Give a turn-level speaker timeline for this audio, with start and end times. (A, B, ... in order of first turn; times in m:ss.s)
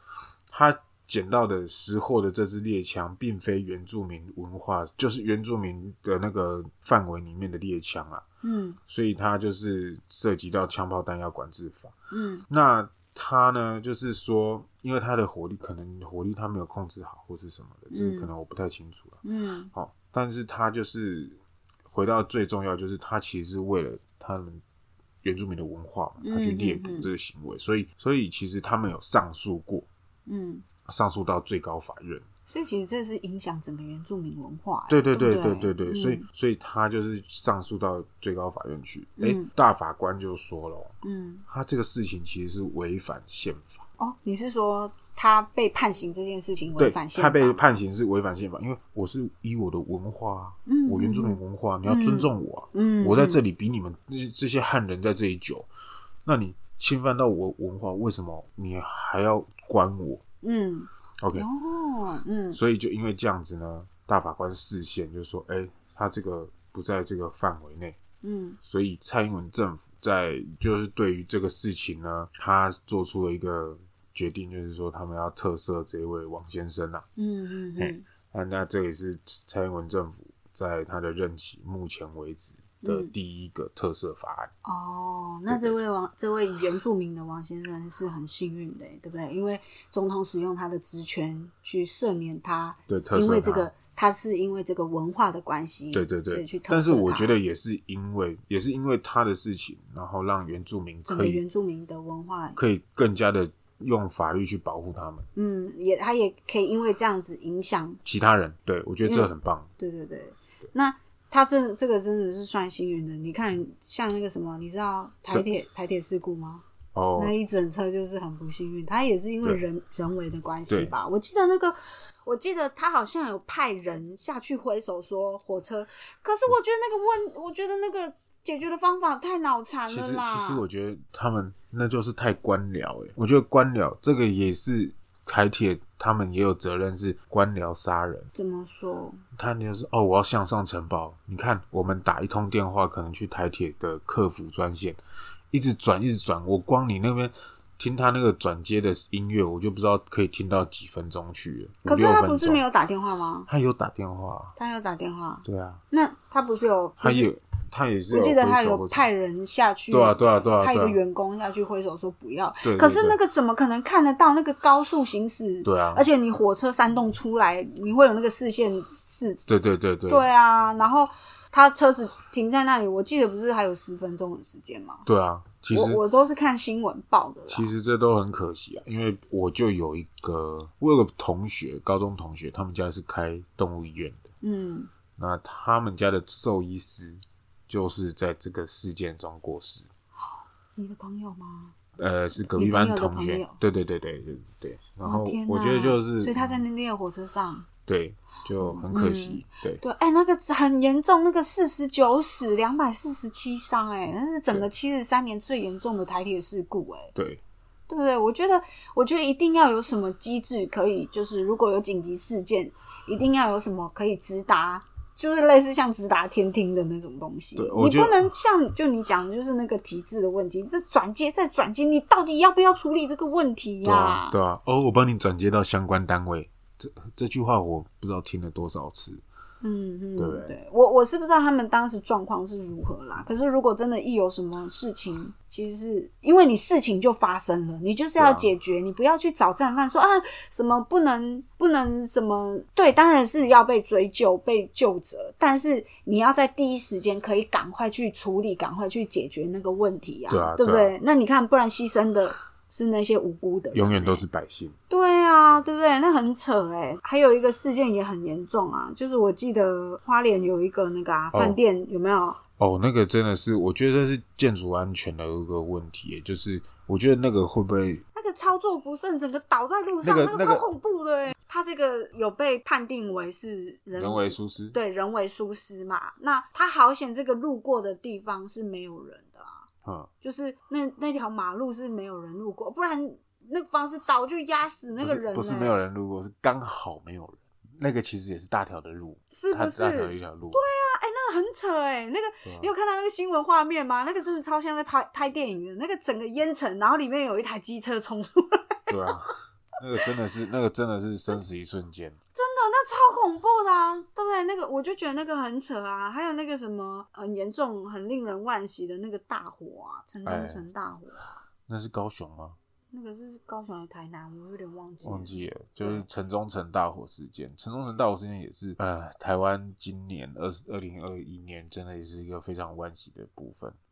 0:00.5-0:08.2 A
0:08.4-0:08.8 B
0:08.9-0:11.9 A
0:12.1-0:12.4 B
0:12.5-0:19.2 A
0:17.9-0:18.3 B
0:19.2-0:19.7 B
0:19.7-0:24.6 A
0:25.2-0:29.9 A
0:26.2-0:27.1 B
0:30.3-0:30.6 B
0:30.8-0:32.2 A
0:32.5-0:36.2 B
0:34.9-0:40.9 A
0:39.2-0:39.5 B
0:41.0-0:41.4 B
0:41.5-0:43.8 A
0:44.0-0:47.7 B
0:46.8-0:55.7 A
0:50.6-0:53.4 B
0:56.2-1:00.2 A
1:00.4-1:02.6 B
1:01.2-1:01.5 A
1:02.5-1:08.0 A
1:08.2-1:08.6 B
1:08.6-1:17.0 A
1:17.2-1:18.0 B
1:17.8-1:24.5 A
1:22.8-1:23.1 B
1:24.6-1:37.3 B
1:25.5-1:25.8 A
1:32.9-1:33.7 A
1:35.9-1:41.4 A
1:41.1-1:42.6 B
1:42.6-1:45.2 A
1:45.3-1:48.0 B
1:48.0-1:49.7 A
1:49.0-1:56.6 B
1:56.9-1:57.3 A
1:57.2-2:10.6 B
2:00.7-2:00.9 A
2:09.9-2:18.3 A
2:18.3-2:19.2 B
2:19.3-2:25.0 A
2:25.5-2:32.6 A
2:31.8-2:33.5 B
2:33.5-2:34.5 A
2:34.6-2:37.3 B
2:35.4-2:35.8 A
2:37.0-2:39.0 A
2:38.1-2:49.5 B
2:39.9-2:41.0 A
2:42.6-2:43.2 A
2:45.6-2:46.1 A
2:49.5-2:50.3 A
2:50.1-2:55.0 B
2:55.0-2:56.0 A
2:55.7-2:57.7 B
2:57.5-3:04.2 A
3:04.4-3:04.9 B
3:05.2-3:09.9 A
3:10.8-3:11.7 B
3:12.0-3:16.6 A
3:12.4-3:13.6 B
3:15.0-3:17.7 B
3:17.9-3:19.8 A
3:18.6-3:27.1 B
3:27.1-3:27.4 A
3:27.9-3:44.4 B
3:37.6-3:38.3 A
3:43.8-3:49.2 A
3:49.6-4:14.2 B
3:50.2-3:50.6 A
3:58.2-3:58.5 A
4:10.3-4:11.0 A
4:13.7-4:14.7 A
4:14.9-4:22.4 B
4:21.3-4:21.6 A
4:22.6-4:28.0 A
4:28.1-4:39.6 B
4:30.0-4:30.6 A
4:34.0-4:34.8 A
4:39.8-4:40.1 A
4:40.2-4:45.8 B
4:45.0-4:50.6 A
4:49.3-4:58.9 B
4:52.4-4:52.7 A
4:58.9-5:02.2 A
5:02.3-5:11.2 B
5:10.2-5:10.6 A
5:11.7-5:12.6 A
5:12.9-5:16.0 B
5:15.0-5:23.8 A